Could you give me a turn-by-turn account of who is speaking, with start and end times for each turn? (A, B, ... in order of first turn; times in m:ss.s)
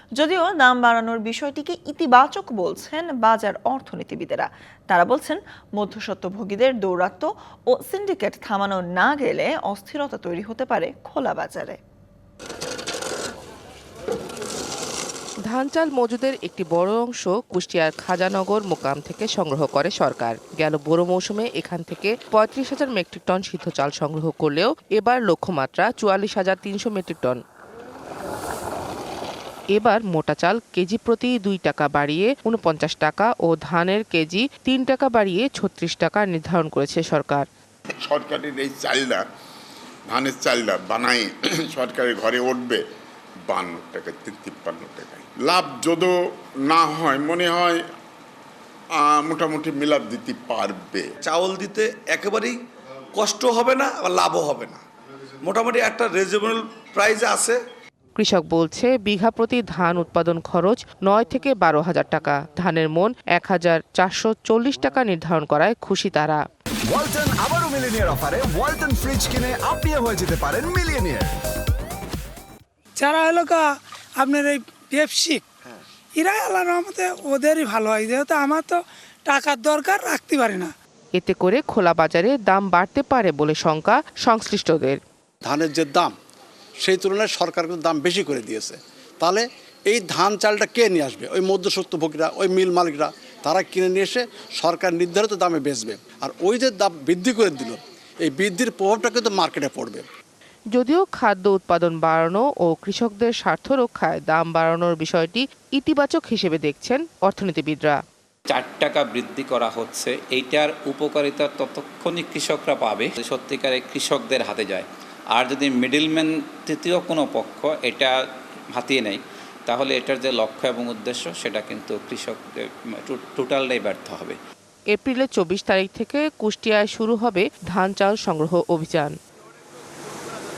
0:00.2-0:11.8 A
0:15.5-0:27.4 B
0:29.7-0:37.4 B
0:38.0-0:39.2 C
0:40.1-0:42.8 C
0:43.5-0:47.8 C
0:49.0-0:51.1 C
0:51.2-0:52.6 D
0:53.1-0:54.8 D
0:55.4-0:57.6 D
0:58.2-1:06.4 B
1:06.8-1:11.4 E
1:13.0-1:15.4 F
1:16.2-1:20.7 F
1:21.2-1:25.0 B
1:25.4-1:26.1 G
1:26.8-1:40.0 G
1:40.7-1:48.0 B
1:48.5-1:58.1 H
1:58.7-2:04.4 H
2:04.9-2:09.1 B